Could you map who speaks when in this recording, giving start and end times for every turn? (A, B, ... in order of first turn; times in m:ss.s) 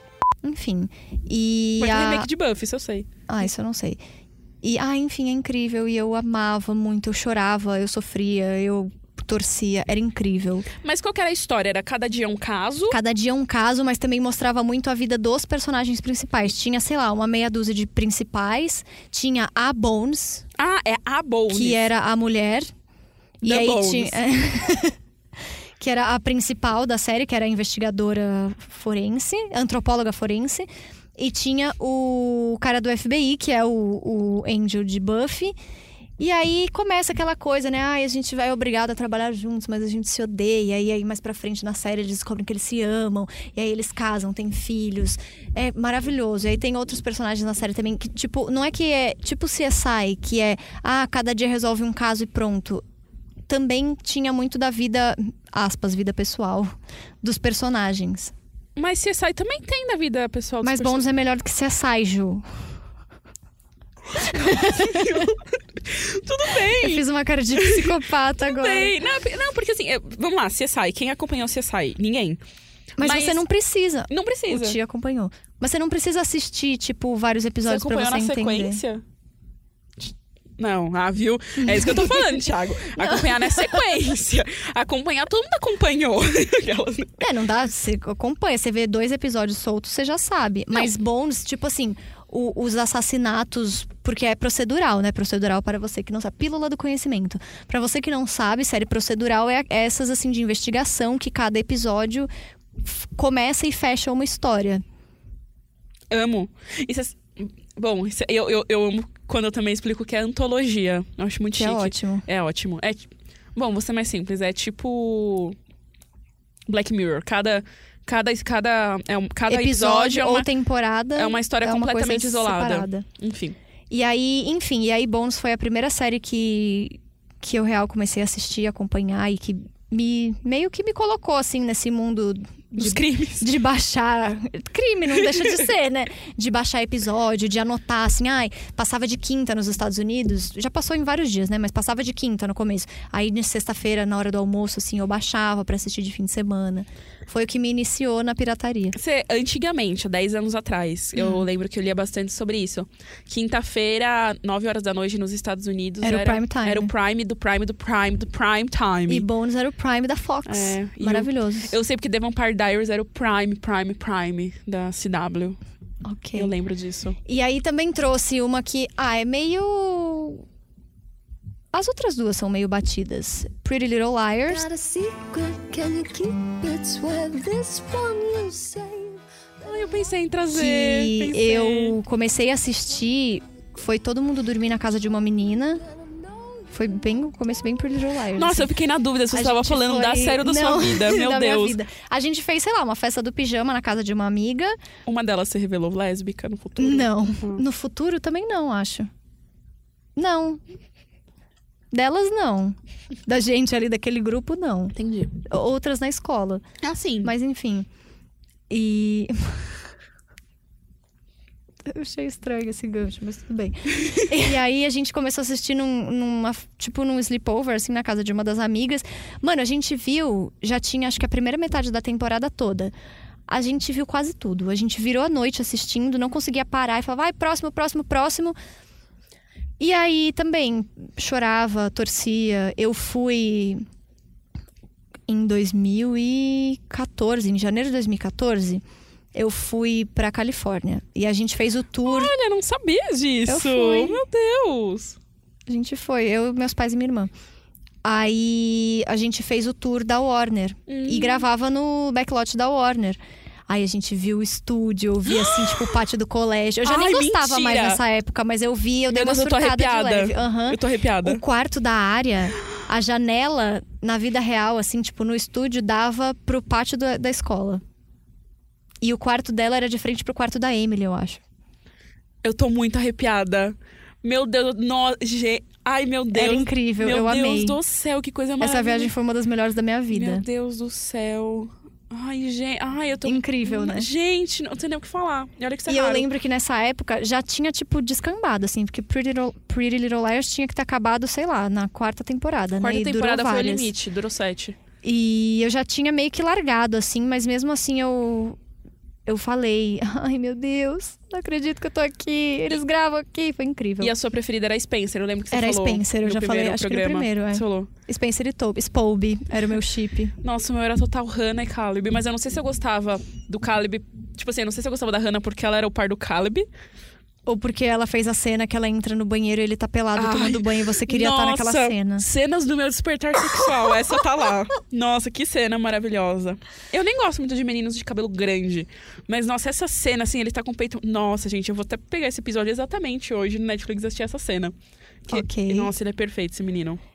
0:00.4-0:02.3 A
0:01.8-0:03.1 B
0:03.3-0:04.0 A
0:04.6-0:10.7 A
0:10.8-0:13.0 B
0:12.9-0:20.4 A
0:20.6-0:21.8 B
0:21.5-0:22.7 A
0:23.4-0:24.2 B
0:23.4-0:25.0 A
0:25.8-0:35.6 A
0:36.2-0:52.8 A
0:53.5-0:58.3 A
0:58.8-1:01.0 B
1:00.6-1:02.4 A
1:04.2-1:07.0 B
1:04.2-1:05.3 A
1:06.6-1:09.0 A
1:07.6-1:07.9 B
1:08.4-1:12.4 B
1:13.0-1:18.8 A
1:13.0-1:13.4 B
1:14.1-1:14.8 B
1:17.6-1:19.0 B
1:20.0-1:27.2 B
1:21.6-1:22.4 A
1:23.0-1:23.7 A
1:27.2-1:42.3 A
1:42.8-1:44.8 A
1:46.1-1:55.6 B
1:51.5-1:52.2 A
1:56.7-2:00.5 B
1:59.5-2:03.1 A
2:01.2-2:03.6 B
2:03.9-2:29.0 A
2:12.8-2:13.5 B
2:29.0-2:39.3 B
2:31.2-2:31.5 A
2:36.0-2:36.9 A
2:39.1-2:41.7 A
2:40.5-2:45.6 B
2:46.0-2:46.5 A
2:46.4-2:47.2 B
2:47.3-2:50.4 A
2:51.7-2:54.6 A
2:54.5-2:59.2 C
2:59.6-3:02.0 B
3:00.5-3:05.8 A
3:06.7-3:08.7 A
3:08.4-3:11.8 B
3:09.3-3:14.8 A
3:15.1-3:17.6 B
3:16.8-3:19.1 A
3:20.2-3:20.6 A
3:21.9-3:25.0 A
3:25.0-3:25.3 B
3:25.5-3:26.6 A
3:26.8-3:27.3 B
3:27.2-3:27.9 A
3:28.7-3:29.4 A
3:31.8-3:42.9 A
3:43.5-3:48.6 A
3:49.8-3:53.8 A
3:55.3-3:58.8 A
3:59.4-4:02.3 A
4:02.0-4:05.2 B
4:03.5-4:04.2 A
4:05.7-4:07.3 A
4:08.0-4:27.8 A
4:10.9-4:11.4 B
4:15.3-4:15.9 B
4:16.8-4:18.0 B
4:19.1-4:21.4 B
4:29.0-4:31.4 A
4:32.4-4:39.1 B
4:36.3-4:37.8 A
4:38.6-4:40.4 A
4:40.1-4:46.3 B
4:43.2-4:44.1 A
4:45.9-4:53.9 A
4:52.8-4:54.8 B
4:55.0-4:58.6 A
4:59.3-5:04.1 A
5:04.0-5:07.9 B
5:05.5-5:10.3 A
5:10.4-5:16.7 B
5:17.5-5:22.3 A
5:20.2-5:34.7 B
5:35.3-5:37.0 B
5:35.3-5:35.9 A